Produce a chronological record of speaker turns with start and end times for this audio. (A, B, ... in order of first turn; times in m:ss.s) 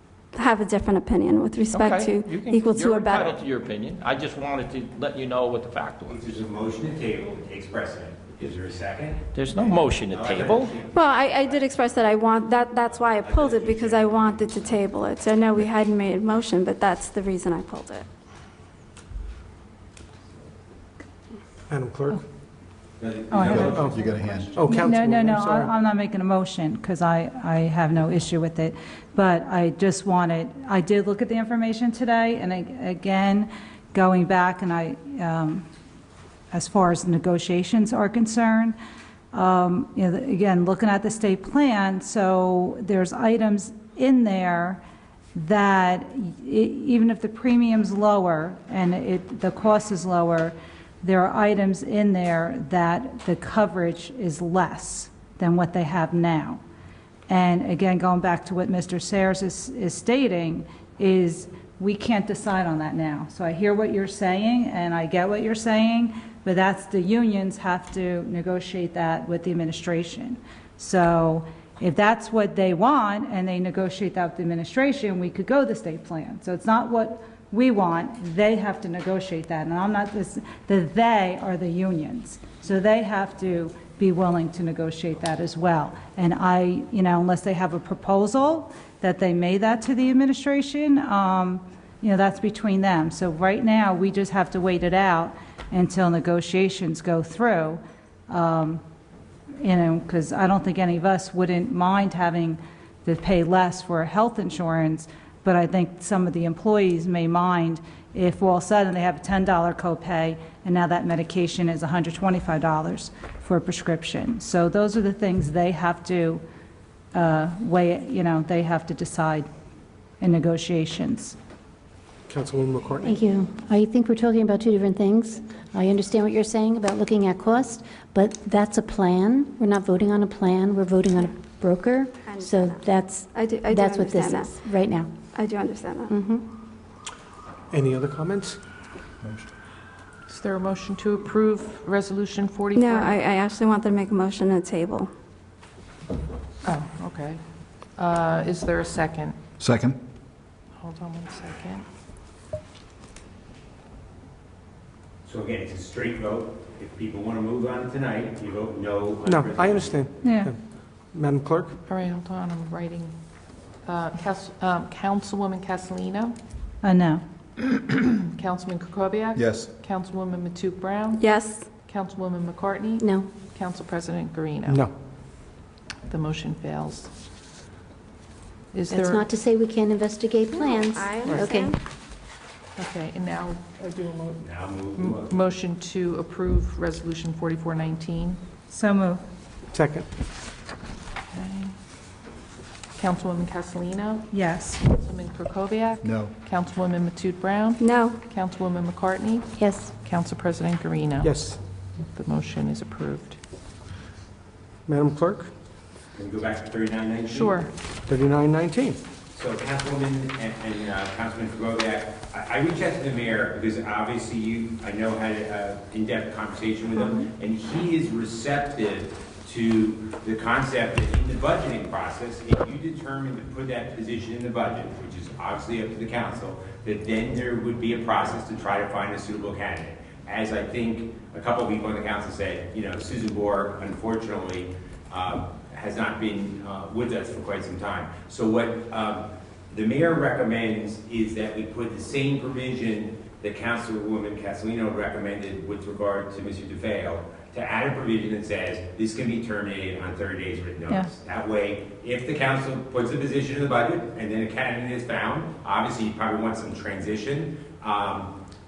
0:00.3-0:03.4 A
0:01.7-0:06.3 B
0:06.0-0:12.0 C
0:09.3-0:10.8 B
0:10.9-0:18.0 A
0:12.8-0:14.8 C
0:21.7-0:22.2 D
0:23.0-0:24.5 C
0:23.3-0:23.8 E
0:23.4-0:25.7 D
0:23.6-0:24.4 F
0:24.6-0:35.6 E
0:36.5-0:38.8 E
0:39.3-0:44.8 E
0:45.3-0:56.6 E
0:57.3-1:38.8 E
1:39.6-1:56.4 E
1:57.1-1:59.5 E
2:00.2-2:01.4 E
2:02.3-2:03.2 D
2:03.0-2:15.1 G
2:12.2-2:14.6 A
2:15.3-2:16.1 A
2:16.1-2:16.5 G
2:17.7-2:18.6 D
2:19.2-2:19.5 F
2:20.3-2:23.2 H
2:22.7-2:25.1 A
2:26.6-2:29.4 H
2:29.6-2:30.0 F
2:30.8-2:31.8 H
2:35.2-2:40.1 C
2:39.2-2:41.8 D
2:40.2-2:40.5 E
2:41.8-2:43.1 H
2:43.8-2:46.4 H
2:46.8-2:47.2 E
2:48.3-2:54.8 H
2:49.4-2:49.7 F
2:51.2-2:51.7 A
2:53.0-2:53.3 G
2:54.7-2:54.9 D
2:56.1-2:57.1 H
2:58.7-2:59.2 H
2:58.9-3:01.8 G
3:00.5-3:01.8 A
3:02.8-3:04.4 H
3:04.4-3:05.4 C
3:04.9-3:08.4 H
3:08.7-3:09.2 E
3:09.7-3:10.1 D
3:11.3-3:11.7 H
3:12.9-3:21.5 H
3:14.3-3:14.8 E
3:16.0-3:16.3 F
3:17.8-3:18.2 A
3:19.5-3:19.9 G
3:21.2-3:21.6 D
3:22.0-3:23.4 H
3:24.9-3:25.5 D
3:26.1-3:27.6 C
3:27.3-3:27.7 H
3:28.1-3:29.0 D
3:29.3-4:18.3 C